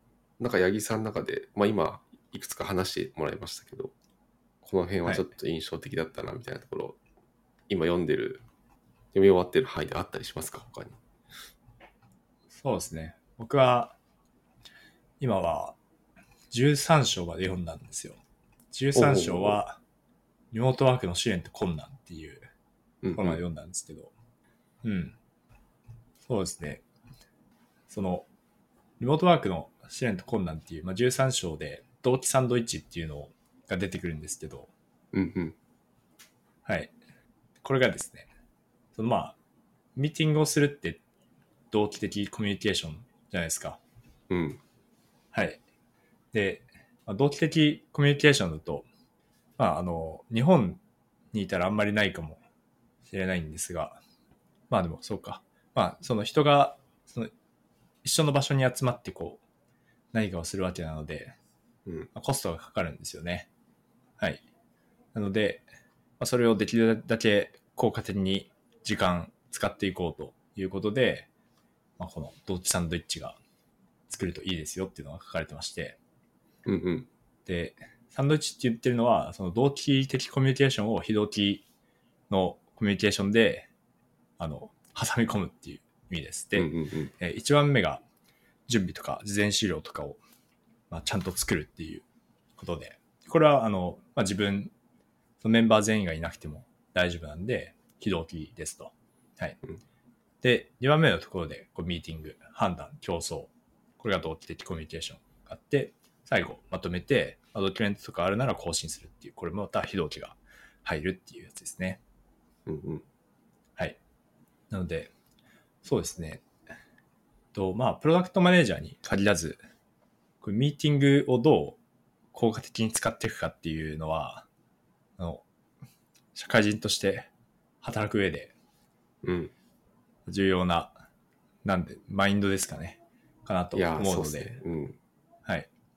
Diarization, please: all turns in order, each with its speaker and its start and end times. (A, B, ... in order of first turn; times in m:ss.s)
0:00.4-0:03.9 A
0:04.6-0:07.0 A
0:07.7-0:08.4 A
0:09.1-0:11.0 A
0:12.5-0:14.0 B
0:15.2-0:15.8 B
0:16.5-0:18.2 B
0:18.7-0:19.8 B
0:19.0-0:19.6 A
0:20.5-0:22.5 B
0:23.0-0:23.4 A
0:23.2-0:24.1 B
0:24.8-0:25.2 B
0:26.3-0:26.8 B
0:27.9-0:28.3 B
0:29.0-0:34.7 B
0:35.1-0:35.6 A
0:36.6-0:36.9 B
0:37.6-0:38.3 B
0:39.0-0:39.4 B
0:40.0-0:41.0 B
0:41.7-0:43.8 B
0:44.3-0:44.6 A
0:45.3-0:45.6 B
0:46.3-0:48.9 B
0:49.6-0:50.8 B
0:51.3-0:52.4 B
0:53.1-0:54.0 B
0:54.7-0:57.3 B
0:58.0-0:59.4 B
1:00.1-1:01.4 B
1:02.1-1:03.5 B
1:05.1-1:05.7 B
1:06.2-1:11.3 B
1:12.0-1:13.4 B
1:14.1-1:16.0 B
1:16.6-1:17.1 A
1:17.5-1:21.6 B
1:22.3-1:23.7 B
1:24.4-1:28.0 B
1:26.6-1:27.1 A
1:28.7-1:30.2 B
1:30.9-1:32.0 B
1:32.6-1:34.7 B
1:35.4-1:39.6 B
1:40.4-1:52.0 B
1:52.7-1:53.0 A
1:54.7-1:55.1 B
1:55.8-1:56.4 B
1:57.5-1:59.6 B
2:00.4-2:01.8 B
2:02.3-2:04.5 B
2:05.2-2:05.4 B
2:06.4-2:07.3 B
2:07.8-2:08.5 B
2:09.2-2:09.5 A
2:10.3-2:11.0 B
2:11.6-2:14.6 B
2:13.7-2:15.0 A